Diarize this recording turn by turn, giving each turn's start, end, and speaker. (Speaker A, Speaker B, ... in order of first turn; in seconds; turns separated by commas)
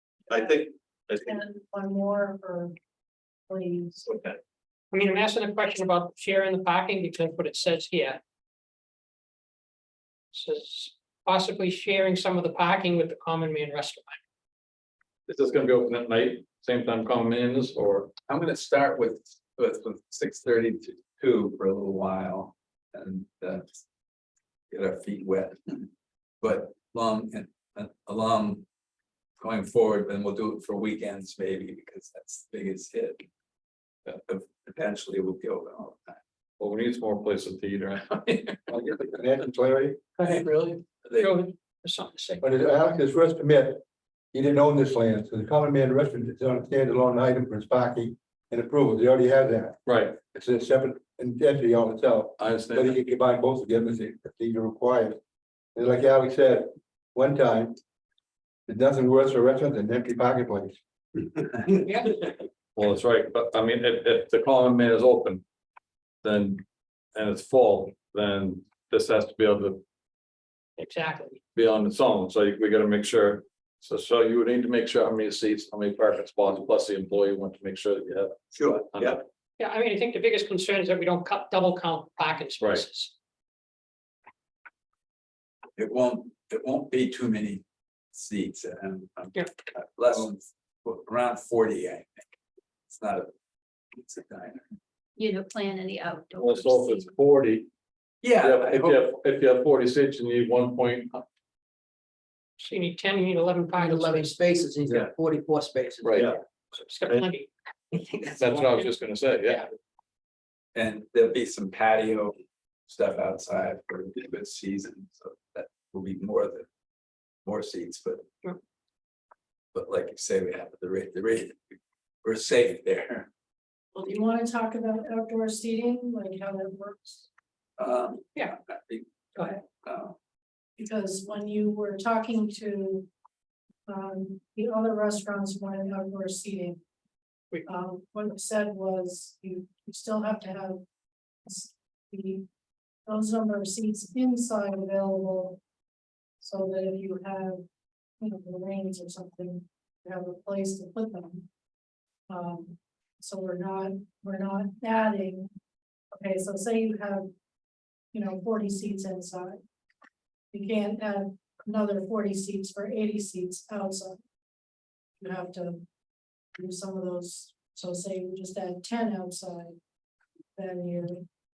Speaker A: 0.3-2.7, Speaker B: 0.3-1.4, Speaker A: 3.5-4.2, Speaker B: 4.0-4.4, Speaker C: 4.9-8.2, Speaker C: 10.3-14.2, Speaker D: 15.3-18.1, Speaker E: 18.3-23.7, Speaker E: 24.7-25.9, Speaker E: 26.4-28.6, Speaker E: 29.4-33.2, Speaker E: 34.2-36.2, Speaker D: 36.6-38.6, Speaker F: 38.7-40.0, Speaker C: 40.2-42.4, Speaker E: 41.0-41.3, Speaker F: 42.4-43.8, Speaker F: 44.3-55.2, Speaker D: 49.9-50.1, Speaker D: 52.4-53.0, Speaker F: 55.7-57.8, Speaker F: 58.7-60.8, Speaker C: 61.8-62.1, Speaker D: 62.8-65.4, Speaker D: 66.2-66.6, Speaker D: 67.1-69.8, Speaker C: 70.8-71.4, Speaker D: 71.5-79.2, Speaker B: 78.5-79.2, Speaker C: 79.6-83.1, Speaker D: 82.6-82.8, Speaker E: 85.8-92.2, Speaker E: 92.9-93.3, Speaker E: 93.9-94.6, Speaker G: 95.2-97.1, Speaker D: 96.4-97.7, Speaker E: 98.2-98.9, Speaker D: 98.4-101.2, Speaker C: 102.6-105.1, Speaker H: 103.7-106.2, Speaker D: 106.0-106.3, Speaker C: 106.7-107.5, Speaker H: 108.0-108.6, Speaker D: 108.4-109.7, Speaker E: 110.7-112.3, Speaker E: 112.9-116.7, Speaker E: 117.4-118.3, Speaker E: 119.7-121.7, Speaker E: 122.2-123.3, Speaker A: 123.9-127.3, Speaker E: 127.8-129.0, Speaker C: 129.3-129.6, Speaker E: 129.8-130.2, Speaker A: 130.8-133.1, Speaker A: 133.9-136.8, Speaker A: 137.6-140.8, Speaker A: 141.4-142.4, Speaker A: 143.1-145.6, Speaker A: 146.4-147.6, Speaker A: 148.2-151.5, Speaker A: 152.3-155.5, Speaker A: 156.1-157.3, Speaker A: 158.1-159.6, Speaker A: 160.5-164.2, Speaker A: 165.2-165.8, Speaker A: 166.5-169.8, Speaker A: 170.6-171.2